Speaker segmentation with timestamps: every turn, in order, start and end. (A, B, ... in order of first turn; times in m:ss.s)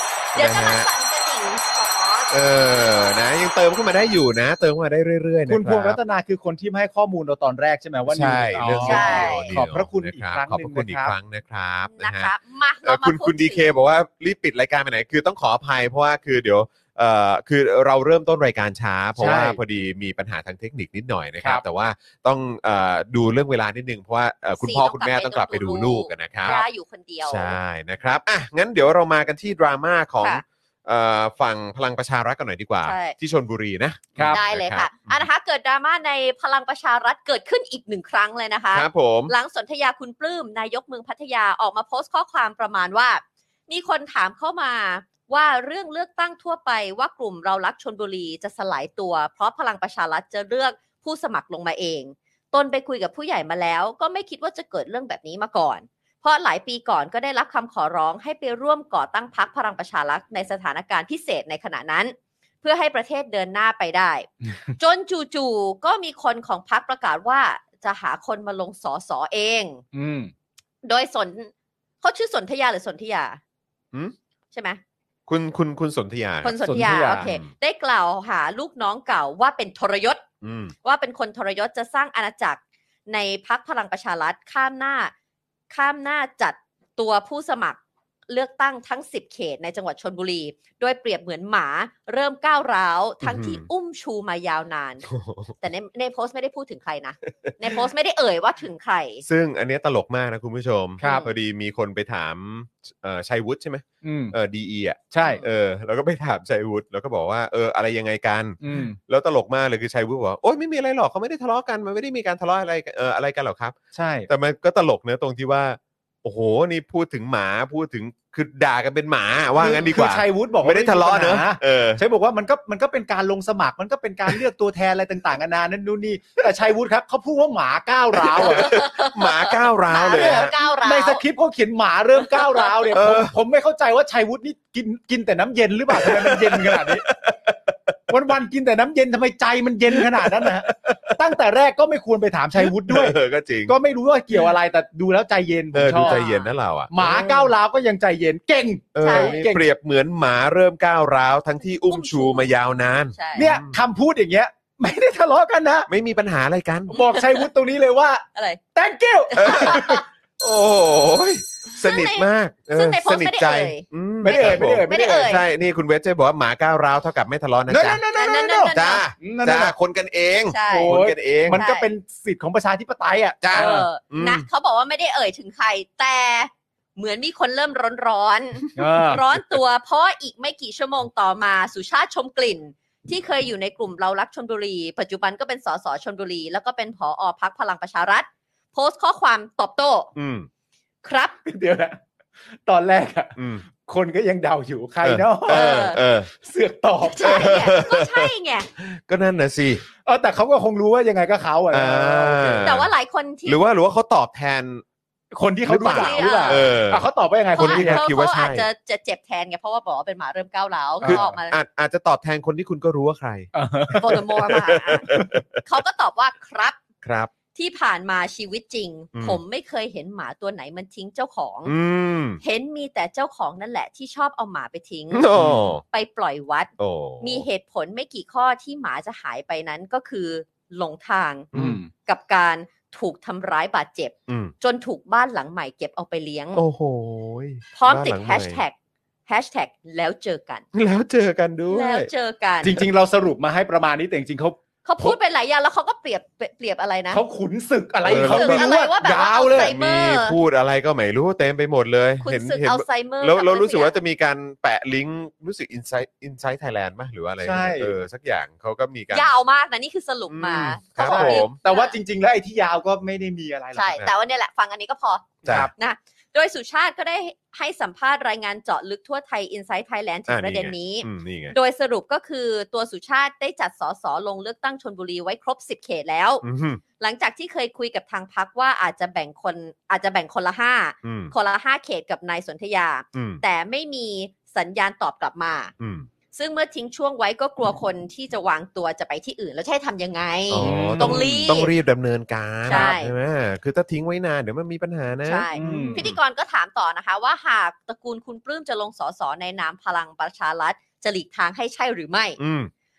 0:00.3-0:03.0 A
0:00.4-0:00.9 B
0:02.3-0:06.0 B
0:05.5-0:11.2 C
0:08.1-0:12.3 B
0:08.8-0:09.6 A
0:12.0-0:13.8 A
0:12.8-0:26.6 B
0:19.2-0:19.6 C
0:24.6-0:27.6 A
0:27.2-0:35.2 B
0:32.8-0:33.2 A
0:34.2-0:34.4 C
0:34.3-1:09.8 A
0:38.7-0:39.3 B
1:09.9-1:10.3 C
1:10.8-1:11.5 A
1:12.0-1:13.4 A
1:14.5-1:14.8 A
1:15.3-1:16.6 B
1:16.4-1:20.2 A
1:16.6-1:17.3 C
1:17.1-1:17.5 B
1:20.4-1:20.7 B
1:20.8-1:25.1 A
1:25.7-1:35.1 A
1:33.2-1:33.7 B
1:35.1-1:35.5 B
1:35.6-1:39.2 A
1:39.2-1:53.8 B
1:41.0-1:41.3 C
1:41.0-1:41.3 A
1:44.0-1:44.4 C
1:45.1-1:45.4 C
1:48.6-1:49.0 C
1:53.9-1:54.3 C
1:54.3-2:02.0 B
1:59.6-2:08.8 C
2:08.4-2:10.5 B
2:08.5-2:11.2 A
2:10.1-2:17.0 C
2:12.4-2:12.7 A
2:12.9-2:13.3 B
2:15.9-2:18.0 B
2:18.1-2:26.2 C
2:19.9-2:21.2 B
2:22.6-2:23.8 B
2:25.7-2:27.5 B
2:25.9-2:26.5 A
2:26.9-2:29.7 C
2:29.0-2:33.8 B
2:29.0-2:29.4 A
2:31.7-2:32.5 A
2:33.1-2:33.5 A
2:33.4-2:35.9 C
2:35.9-2:37.0 B
2:36.9-2:40.0 C
2:36.9-2:37.5 A
2:38.4-2:38.6 A
2:39.3-2:40.0 A
2:39.4-2:48.0 B
2:41.8-2:45.5 A
2:44.2-2:45.4 C
2:47.7-2:49.8 C
2:48.1-2:49.0 A
2:48.7-2:51.6 B
2:50.5-2:51.0 A
2:50.7-2:53.9 C
2:51.5-2:51.9 A
2:53.4-2:54.4 B
2:53.5-3:10.1 A
2:58.8-2:59.2 C
3:10.2-3:10.5 B
3:11.0-3:11.4 A
3:11.4-3:12.0 C
3:12.6-3:17.6 C
3:13.4-3:13.7 B
3:15.0-3:16.3 B
3:15.5-3:16.0 A
3:17.0-3:18.7 A
3:17.2-3:19.8 B
3:20.0-3:22.7 C
3:21.7-3:22.9 B
3:22.6-3:23.6 A
3:23.5-3:24.8 B
3:25.3-3:28.0 C
3:25.7-3:27.0 B
3:25.8-3:26.8 A
3:27.6-3:31.6 A
3:27.6-3:28.7 B
3:31.0-3:31.3 C
3:31.0-3:35.6 B
3:33.5-3:34.2 C
3:34.0-3:36.8 A
3:37.0-3:37.3 B
3:37.6-3:41.7 A
3:39.2-3:39.4 B
3:41.7-3:42.4 B
3:42.4-3:56.6 A
3:45.1-3:45.8 B
3:45.4-3:45.7 C
3:46.8-3:47.4 B
3:51.5-3:51.8 B
3:51.5-3:51.9 C
3:54.3-3:54.5 B
3:56.6-3:58.6 B
3:57.8-3:58.7 A
3:59.3-4:00.6 A
4:00.7-4:02.1 B
4:01.7-4:02.8 A
4:02.6-4:05.2 C
4:04.8-4:07.2 A
4:07.1-4:09.8 C
4:08.0-4:08.7 B
4:08.1-4:10.4 A
4:09.6-4:19.3 B
4:12.2-4:14.0 A
4:17.4-4:18.0 C
4:19.1-4:22.0 A
4:20.3-4:21.6 B
4:21.0-4:24.0 C
4:23.7-4:36.4 A
4:25.4-4:25.7 B
4:25.5-4:25.7 C
4:30.3-4:31.6 B
4:36.4-4:36.8 B
4:37.0-4:45.7 A
4:41.0-4:41.3 B
4:43.1-4:43.4 B
4:45.8-4:46.1 B
4:46.3-4:51.7 A
4:50.5-4:56.2 B
4:50.6-4:51.5 C
4:52.7-4:53.1 A
4:55.2-5:02.4 A
4:55.6-4:56.1 C
5:02.4-5:02.7 B